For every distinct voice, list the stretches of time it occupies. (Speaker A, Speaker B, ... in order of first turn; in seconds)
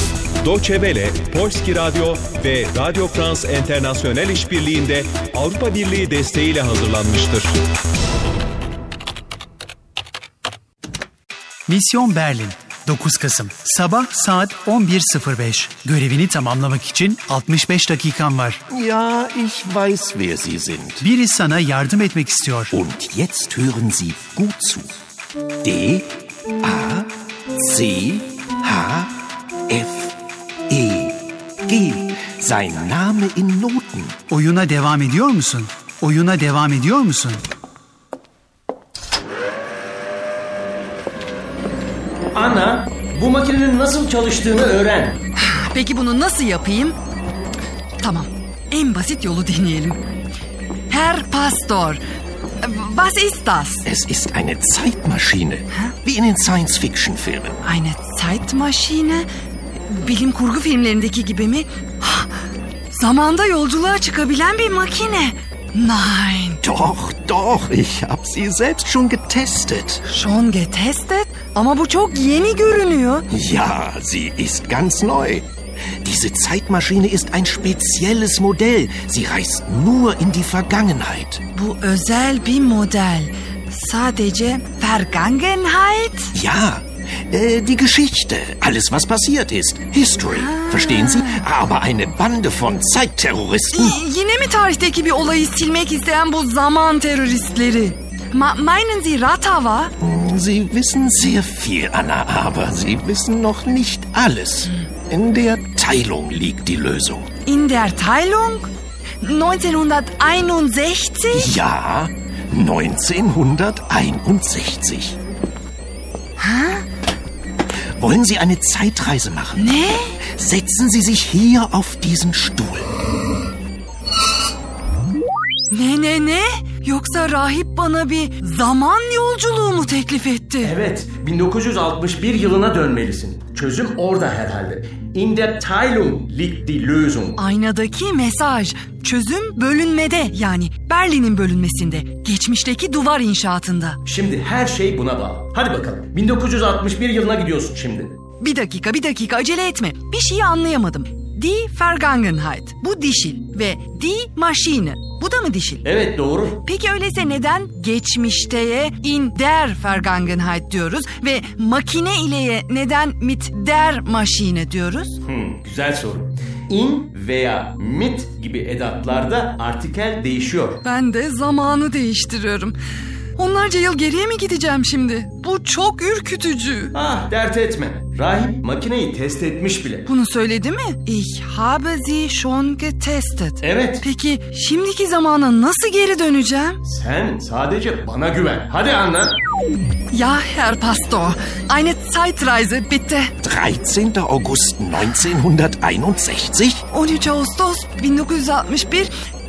Speaker A: 0.4-7.6
Speaker B: 11.7-18.6, 21.0-22.7, 34.3-37.4
Speaker C: 18.7-21.1, 22.7-24.9, 25.6-26.1, 26.6-29.1, 29.7-30.1, 30.7-34.2, 53.9-57.6, 66.6-70.0, 73.3-75.5, 76.0-81.4, 86.3-94.0, 100.0-107.3, 111.3-115.2, 118.0-122.9, 193.4-196.8
Speaker D: 42.3-45.2, 130.6-137.4, 144.0-148.1, 155.8-156.6, 165.2-170.8, 176.9-180.1, 183.6-184.0, 186.8-189.4
Speaker E: 45.4-47.0, 48.0-50.0, 50.9-52.0, 52.6-53.8, 57.6-62.3, 62.9-66.6, 70.0-73.3, 81.5-86.3, 90.3-91.4, 93.7-99.9, 107.5-111.5, 116.4-116.8, 119.5-120.2, 125.7-130.7, 137.4-144.0, 148.4-155.8, 156.6-165.2, 170.8-172.8, 173.3-176.9, 180.1-186.8, 190.1-193.3, 196.9-199.1